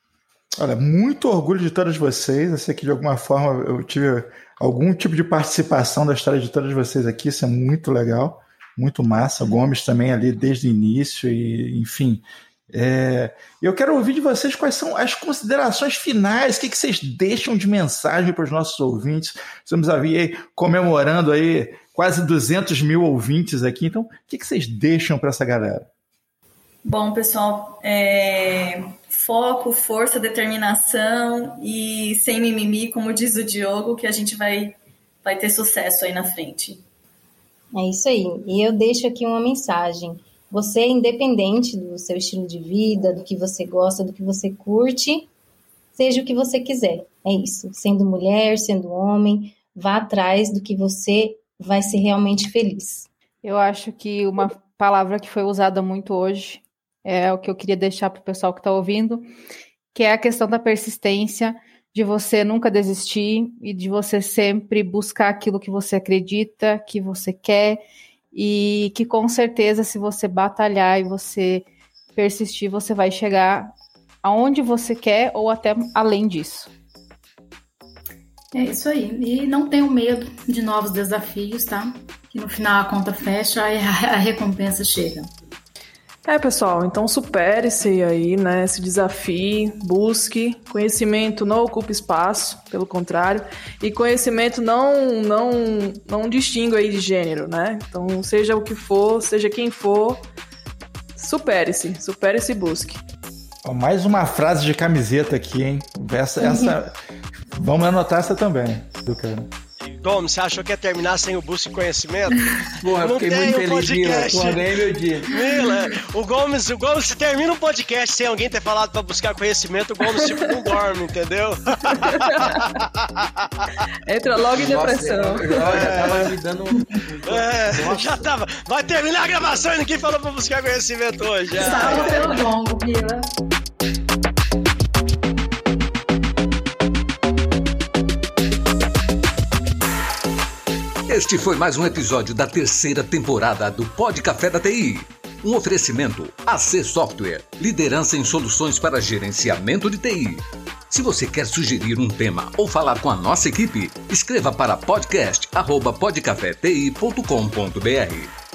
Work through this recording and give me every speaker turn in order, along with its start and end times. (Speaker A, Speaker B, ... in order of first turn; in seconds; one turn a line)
Speaker A: 0.6-25.9
Speaker B: 26.8-36.8
Speaker C: 37.7-45.3
Speaker C: 45.9-53.1
Speaker D: 53.4-59.3
Speaker D: 59.9-67.8
Speaker D: 68.3-71.6
Speaker D: 72.2-76.7
Speaker E: 78.5-85.3
Speaker F: 86.3-100.2
Speaker F: 101.2-103.0
Speaker A: 103.6-106.9
Speaker A: 107.5-109.5
Speaker G: 110.0-114.7
Speaker H: 112.8-115.3
Speaker G: 115.3-123.7
Speaker F: 122.1-122.6
Speaker F: 124.0-125.9
Speaker H: 124.5-128.3
Speaker G: 125.7-126.3
Speaker G: 127.3-132.4
Speaker H: 131.5-132.5
Speaker E: 131.6-133.3
Speaker I: 141.1-158.3